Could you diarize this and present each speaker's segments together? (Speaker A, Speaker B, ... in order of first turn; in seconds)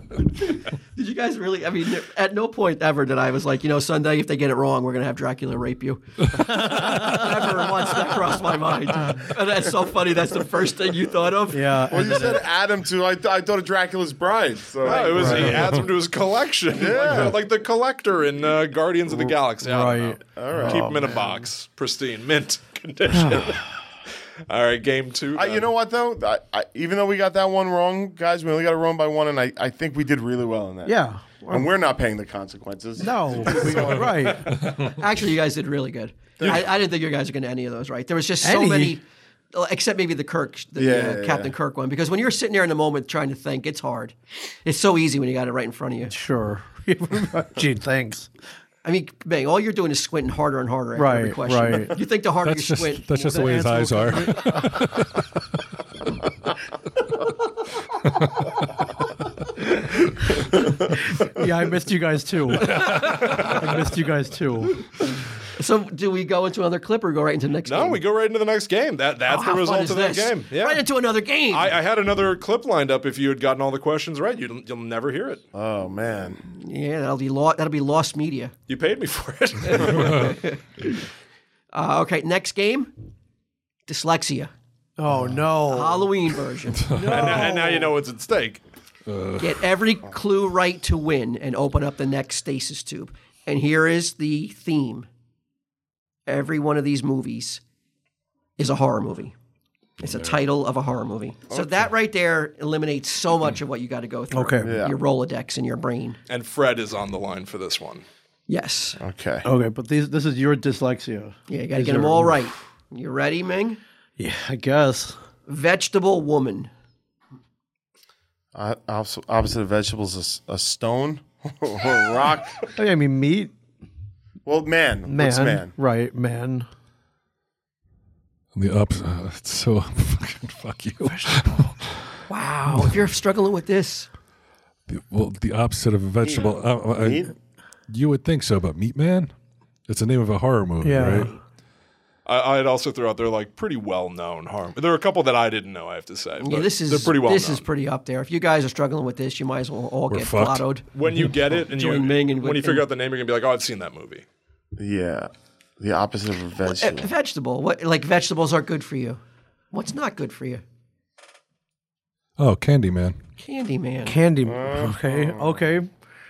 Speaker A: 0.9-12.1, 34.7-46.1, 48.8-53.7, 65.5-68.0, 69.2-71.7, 76.5-78.5, 79.7-81.0, 81.7-82.9, 83.9-84.5, 85.6-86.9, 89.4-95.1, 96.3-97.6, 98.6-99.3, 100.0-106.2, 108.5-109.0, 111.5-113.8, 115.5-116.7, 132.3-134.1, 141.0-141.3, 146.4-150.9, 151.7-152.8, 156.7-159.2, 159.7-160.6, 163.4-164.2
Speaker B: 11.5-12.4, 14.9-15.8, 19.1-21.4, 23.1-23.6, 30.8-31.7, 33.0-34.6, 38.4-39.0, 46.1-48.3, 51.0-52.0, 53.2-54.9, 61.2-64.8, 85.0-86.3, 86.9-87.9, 104.3-104.8, 109.4-112.5, 114.2-115.2, 122.7-123.5, 125.0-126.7, 131.0-131.5, 140.8-141.3, 164.0-165.9
Speaker C: 11.9-15.8, 16.7-17.4, 20.3-21.0, 25.3-34.5, 36.4-36.7, 40.8-41.5, 75.5-76.4, 101.5-101.9, 104.6-105.0, 109.0-109.5, 118.5-122.7, 124.5-125.7, 136.2-137.3, 154.8-157.1, 164.4-165.6
Speaker D: 14.8-23.7, 24.5-25.7, 63.2-63.5, 67.7-70.8, 71.5-75.4, 78.7-80.4, 87.1-88.6, 106.3-108.0, 142.2-147.7, 150.9-154.2
Speaker E: 52.4-55.2, 62.6-63.2, 86.8-87.5, 89.0-89.6, 128.5-132.0, 134.9-137.3, 137.9-139.3, 139.9-141.3, 150.1-150.7, 162.4-163.2